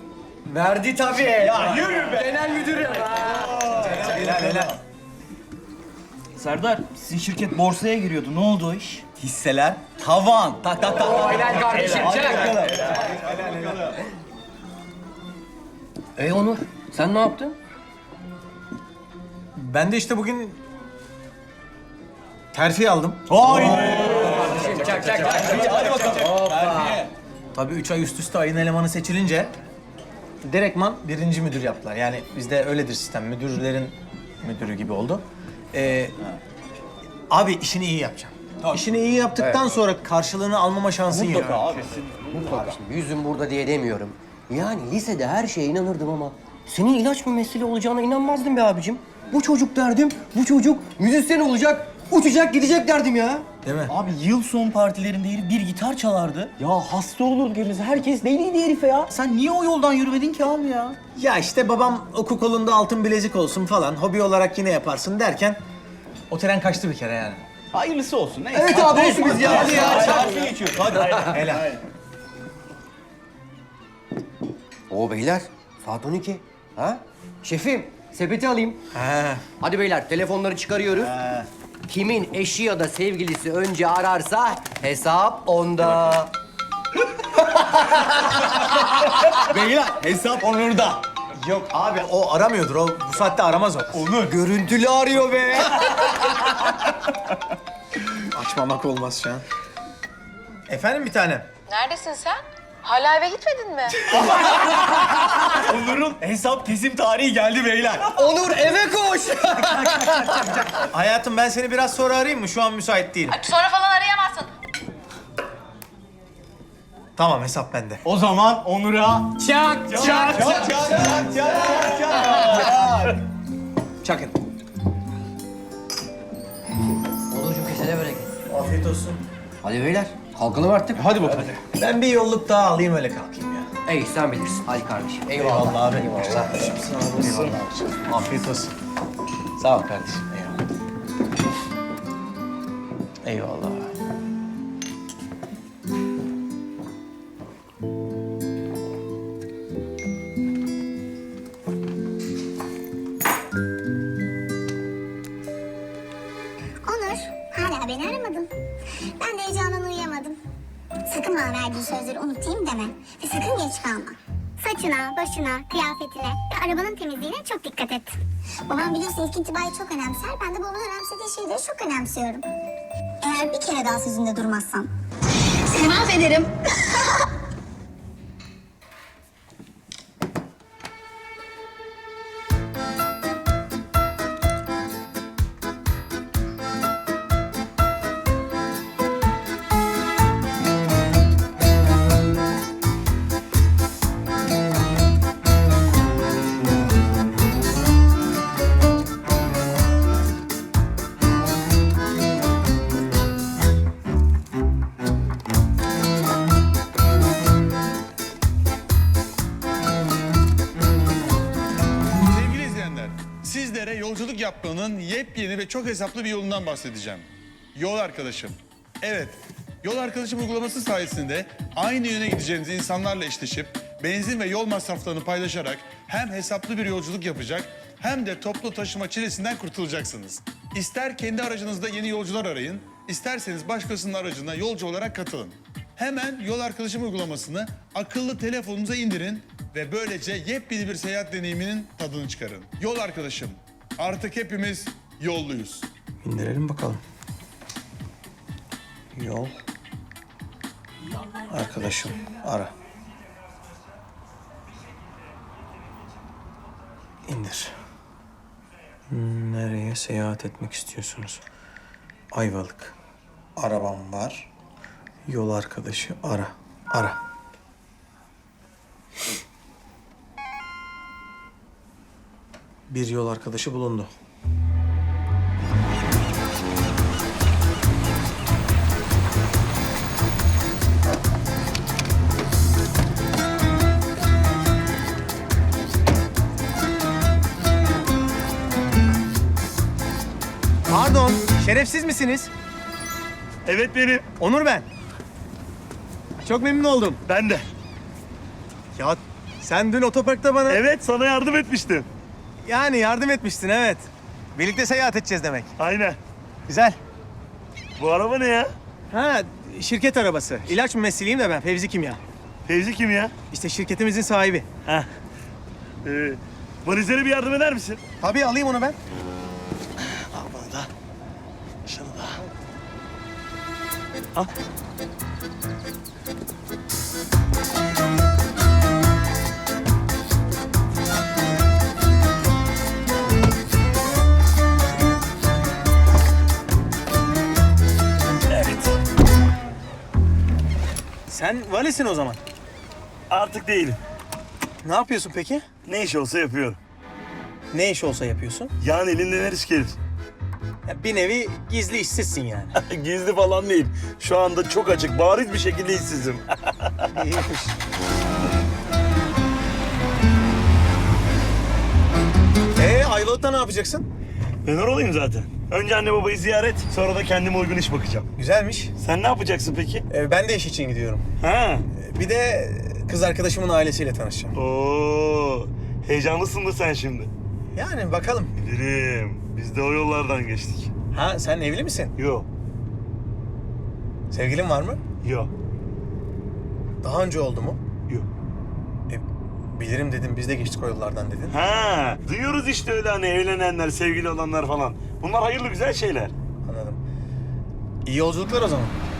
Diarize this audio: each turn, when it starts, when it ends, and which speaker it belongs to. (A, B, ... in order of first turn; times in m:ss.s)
0:00.5-0:03.5 A
0:01.6-0:02.1 B
0:03.7-0:04.8 B
0:06.4-0:09.0 C
0:09.2-0:14.0 B
0:10.9-0:12.8 A
0:16.2-0:17.6 A
0:19.6-0:20.6 B
0:22.5-0:23.9 B
0:23.4-0:27.1 A
0:25.4-0:27.0 B
0:27.6-0:29.5 B
0:30.4-0:36.2 B
0:37.3-0:41.8 B
0:39.4-0:39.6 A
0:41.1-0:42.7 C
0:42.3-0:53.5 A
0:53.6-0:53.9 B
0:53.9-1:01.0 C
1:01.2-1:05.6 B
1:06.3-1:07.4 B
1:07.7-1:10.7 C
1:08.5-1:11.3 A
1:08.7-1:11.7 B
1:11.5-1:11.8 D
1:14.9-1:18.8 A
1:18.9-1:19.4 B
1:19.6-1:21.1 A
1:21.0-1:21.4 B
1:21.9-1:26.3 A
1:27.6-1:30.6 A
1:31.4-1:34.0 B
1:34.0-1:36.5 A
1:38.3-1:39.4 B
1:40.7-1:41.5 B
1:41.7-1:42.3 E
1:42.9-1:43.9 E
1:46.0-1:48.2 B
1:48.1-1:50.7 A
1:50.8-1:53.4 B
1:53.3-1:54.5 E
1:57.2-1:58.0 B
1:58.1-1:59.3 C
1:59.4-2:00.4 A
1:59.9-2:03.2 B
2:00.1-2:00.5 C
2:04.0-2:04.3 B
2:07.3-2:08.3 A
2:08.5-2:09.2 B
2:09.6-2:11.5 A
2:11.7-2:13.7 B
2:13.9-2:16.5 A
2:15.4-2:18.7 B
2:19.6-2:20.6 B
2:23.2-2:23.9 B
2:36.8-2:38.5 F
2:39.0-2:40.4 F
2:41.0-2:52.5 F
2:53.2-2:54.9 F
2:55.8-2:56.5 F
3:32.3-4:05.9 G
4:06.2-4:07.0 B
4:09.1-4:09.6 B
4:11.4-4:12.7 B
4:17.3-4:17.7 B
4:19.1-4:21.4 B
4:22.3-4:23.0 B
4:23.6-4:24.5 B
4:25.3-4:27.2 B
4:32.9-4:34.1 B
4:50.9-4:52.5 B
4:53.7-4:54.2 D
4:54.4-4:54.9 B
4:56.4-4:57.2 B
4:57.3-4:57.6 D
4:59.0-5:00.8 B
5:00.7-5:02.1 D
5:02.6-5:05.7 B
5:05.8-5:06.2 D
5:06.7-5:07.0 B
5:08.0-5:08.7 D
5:09.1-5:12.2 B
5:12.7-5:13.3 D
5:13.5-5:14.7 B
5:16.0-5:18.0 D
5:18.2-5:19.0 B
5:20.3-5:20.9 D
5:21.9-5:22.4 D
5:38.5-5:39.0 D
5:41.3-5:42.4 B
5:43.3-5:44.0 D
5:44.8-5:45.6 B
5:45.9-5:46.8 D
5:47.7-5:48.7 B
5:48.8-5:50.0 D
5:50.9-5:52.8 B
5:52.8-5:57.1 D
5:57.1-5:57.7 B
6:02.8-6:04.1 B
6:04.6-6:08.3 D
6:08.4-6:08.9 B
6:09.0-6:10.0 D
6:10.1-6:11.2 B
6:11.4-6:11.9 D
6:11.9-6:14.6 B
6:14.6-6:17.3 D
6:17.7-6:18.5 B
6:18.6-6:20.9 D
6:21.1-6:22.1 B
6:22.2-6:22.5 D
6:24.3-6:25.0 B
6:25.2-6:25.5 D
6:27.0-6:27.8 B
6:29.1-6:31.7 B
6:31.5-6:36.3 D
6:36.6-6:37.0 B
6:38.1-6:39.0 B